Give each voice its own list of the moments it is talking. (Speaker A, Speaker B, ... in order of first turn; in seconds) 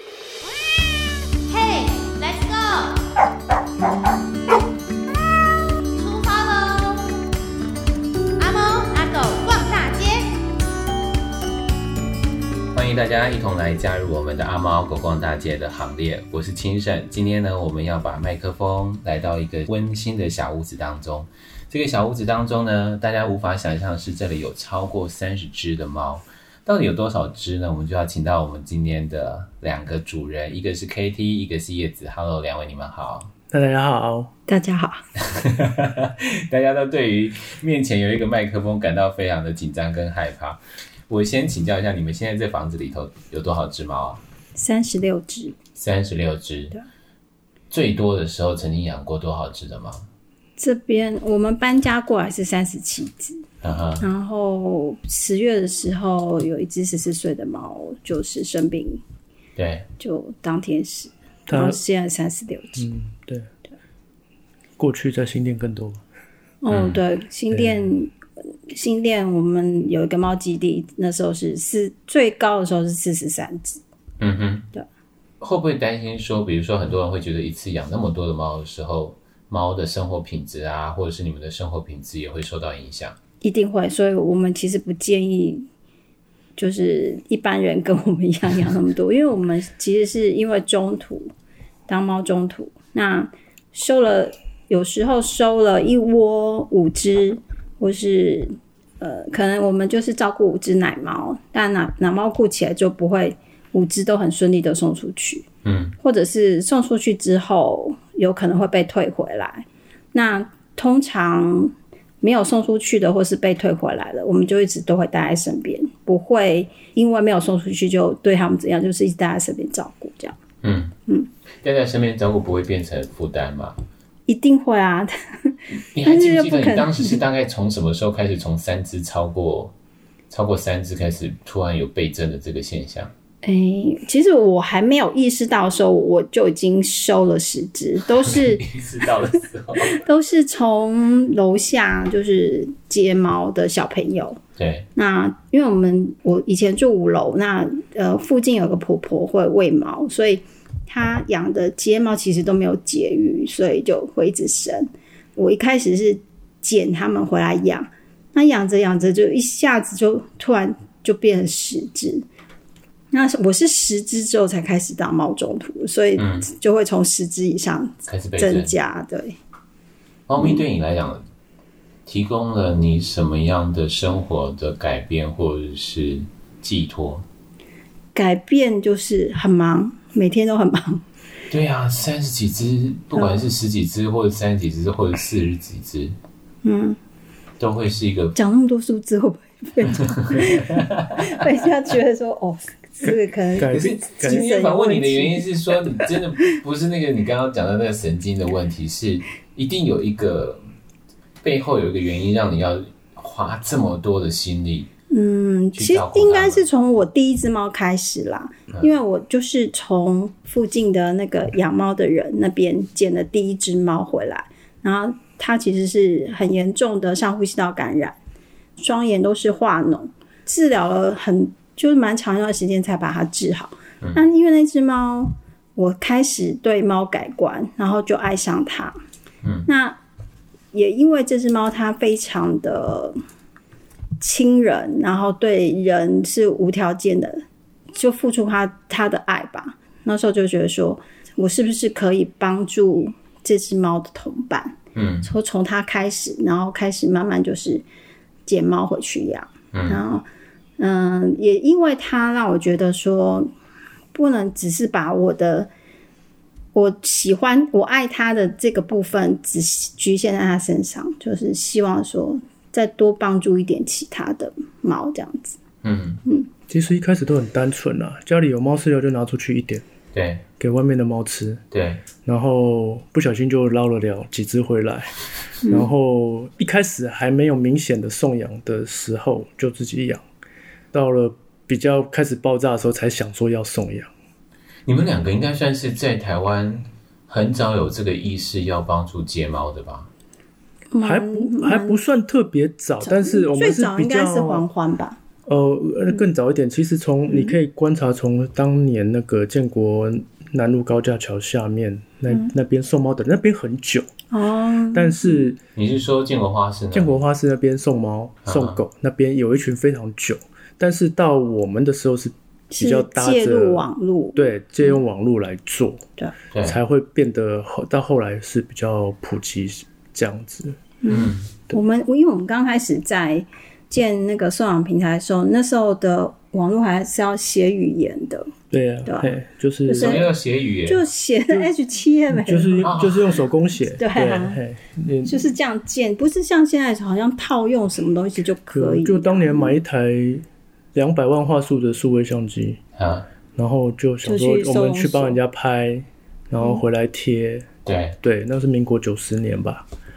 Speaker A: 1.4-3.1, 5.9-7.2, 8.4-10.3
Speaker B: 12.7-33.3, 35.2-44.2, 45.8-46.7, 47.7-50.0, 53.6-54.0, 59.5-59.9, 66.7-67.0, 74.2-74.7, 75.4-83.2, 105.6-105.9, 120.6-120.9, 121.6-123.8, 125.9-129.7, 130.3-133.1, 138.2-140.0, 144.6-144.9, 166.2-166.5, 168.1-168.7, 170.3-171.2, 172.1-177.2, 181.5-186.1, 187.6-188.3, 190.1-191.2, 193.6-200.6, 201.4-204.9, 205.8-206.6, 229.4-229.7, 244.9-245.3, 249.7-250.0, 265.8-266.2, 270.1-270.4, 271.7-272.1, 284.9-290.1, 305.7-307.2, 308.4-308.8, 316.5-316.8, 321.1-321.5, 329.9-331.0, 332.8-333.4, 342.9-343.3, 347.9-348.2
Speaker C: 33.5-34.3, 61.5-61.8, 62.8-63.5, 64.8-66.0, 67.5-67.9, 193.6-194.4, 266.7-269.8, 270.6-271.6, 272.2-280.2, 280.9-284.1, 291.0-294.6, 295.4-304.1, 304.9-305.6, 306.9-313.8, 314.3-316.0, 316.6-320.8, 328.7-330.2, 332.3-335.5, 338.7-342.8, 343.6-347.7, 348.2-349.9
Speaker D: 34.5-35.0, 44.5-45.5, 50.6-53.4, 54.0-59.0, 60.0-62.9, 66.6-68.1, 68.7-73.8, 83.4-85.7, 86.6-91.3, 91.9-105.4, 106.0-120.3, 124.3-127.2, 133.4-138.6, 139.9-144.4, 144.9-162.2, 163.1-169.3, 178.1-181.0, 183.1-183.4, 186.6-187.0, 188.3-195.5, 205.1-218.2, 218.8-229.0, 229.7-230.0, 230.7-233.2, 234.2-247.8, 248.4-250.2, 250.8-253.5, 254.1-255.7, 256.7-265.6, 275.6-275.9, 290.9-292.0, 293.0-295.2, 297.3-297.6, 304.3-305.5, 312.7-315.0, 321.0-328.5, 329.0-329.3, 329.8-330.3, 330.9-332.9, 333.9-334.6, 335.2-339.8, 344.2-345.4